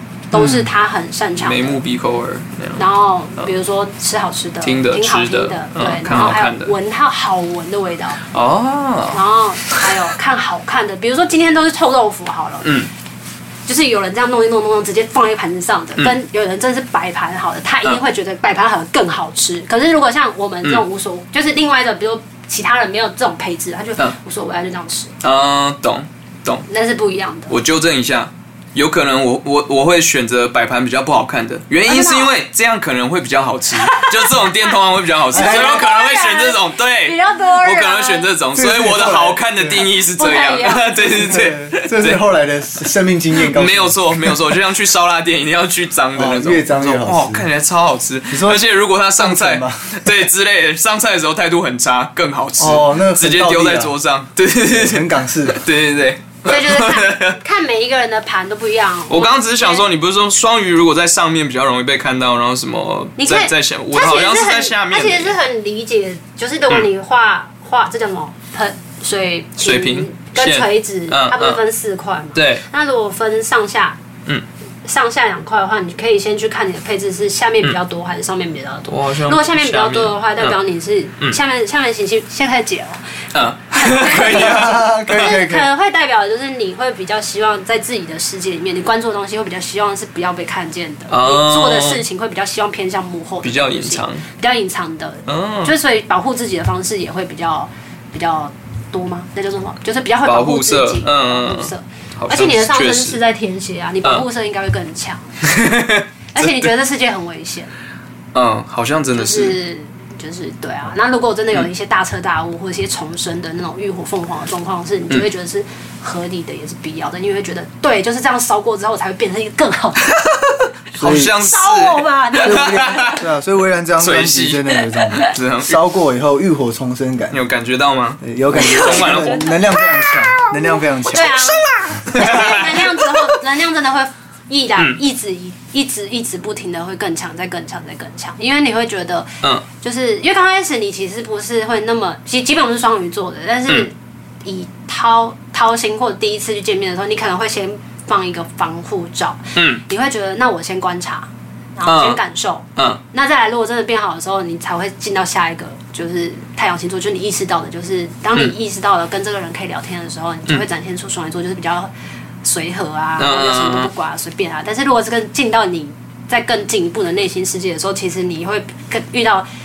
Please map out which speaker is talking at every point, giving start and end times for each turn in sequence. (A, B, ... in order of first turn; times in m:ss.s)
0:00.3-0:01.8 A
0:00.3-0:00.7 B
0:01.4-0:02.8 B
0:02.8-0:08.2 A
0:04.6-0:06.7 B
0:08.3-0:09.2 B
0:09.1-0:12.8 A
0:12.6-0:12.9 B
0:13.7-0:25.1 A
0:25.2-0:26.6 B
0:26.7-0:27.6 A
0:27.5-0:42.2 B
0:31.9-0:32.4 A
0:33.8-0:34.8 A
0:35.3-0:38.3 A
0:35.3-0:35.8 C
0:38.6-0:39.9 C
0:40.2-0:41.0 A
0:41.1-0:44.5 C
0:43.4-0:57.4 B
0:46.1-0:47.5 C
0:48.3-0:48.6 C
0:49.2-0:50.1 C
0:52.6-0:53.9 C
0:54.7-0:55.6 C
0:56.4-0:59.8 A
0:59.1-1:05.4 B
1:03.2-1:14.0 A
1:09.6-1:11.6 B
1:12.4-1:12.6 B
1:14.8-1:23.0 A
1:18.9-1:20.6 B
1:23.3-1:25.4 B
1:23.7-1:45.4 A
1:24.2-1:25.7 C
1:31.1-1:32.0 B
1:33.4-1:34.2 B
1:35.3-1:35.7 B
1:40.2-1:43.2 B
1:45.4-1:46.7 B
1:46.3-1:47.7 A
1:48.3-1:49.6 B
1:49.1-2:00.1 A
2:00.2-2:03.2 B
2:01.0-2:01.4 C
2:01.4-2:03.2 A
2:02.4-2:07.4 C
2:04.0-2:05.8 B
2:07.3-2:09.6 B
2:08.2-2:11.6 C
2:08.5-2:23.9 A
2:11.3-2:13.4 B
2:24.4-2:41.9 A
2:29.6-2:29.8 B
2:31.9-2:32.2 B
2:32.8-2:33.0 B
2:42.4-2:49.5 A
2:43.2-2:43.9 B